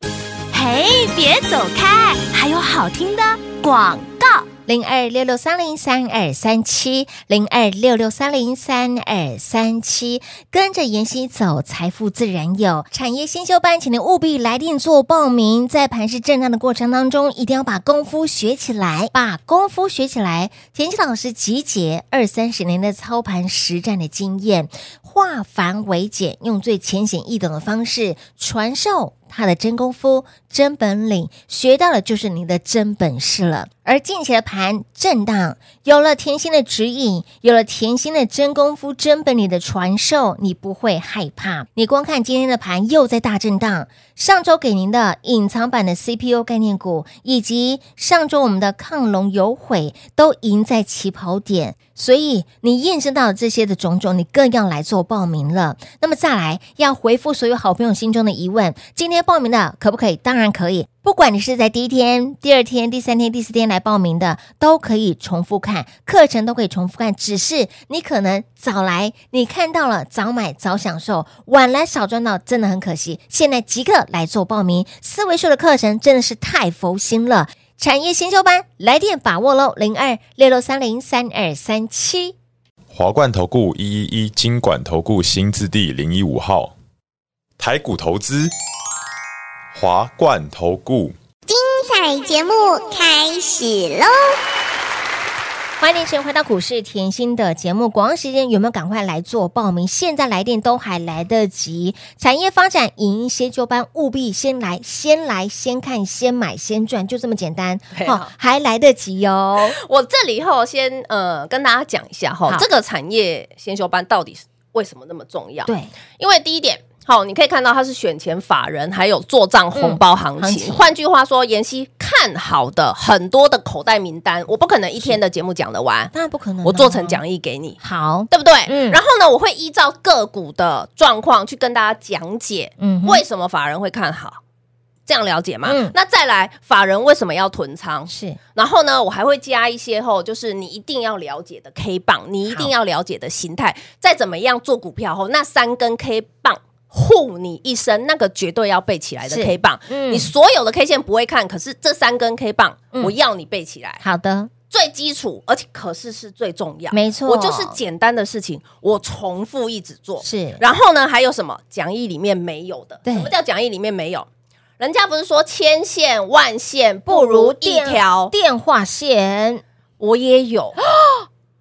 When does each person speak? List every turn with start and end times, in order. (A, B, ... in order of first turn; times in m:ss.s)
0:00.5-0:04.1 A
0:04.6-1:22.3 B
1:22.9-1:26.7 C
1:27.6-1:28.5 C
1:29.7-1:31.1 C
1:31.5-1:34.2 D
1:35.8-1:49.8 B
1:47.9-1:48.3 E
1:49.6-2:06.1 E
1:55.6-1:55.9 B
1:59.7-2:00.8 B
2:06.1-2:07.2 B
2:06.6-2:14.4 E
2:07.8-2:09.0 B
2:12.8-2:13.2 B
2:15.1-2:34.0 E
2:15.6-2:15.9 B
2:18.1-2:18.4 B
2:29.3-2:30.3 B
2:34.0-2:34.5 B
2:34.7-2:44.3 E
2:36.9-2:37.8 B
2:40.2-2:40.6 B
2:43.0-2:43.3 B
2:44.8-2:48.3 E
2:47.1-2:49.6 B
2:50.0-2:50.8 E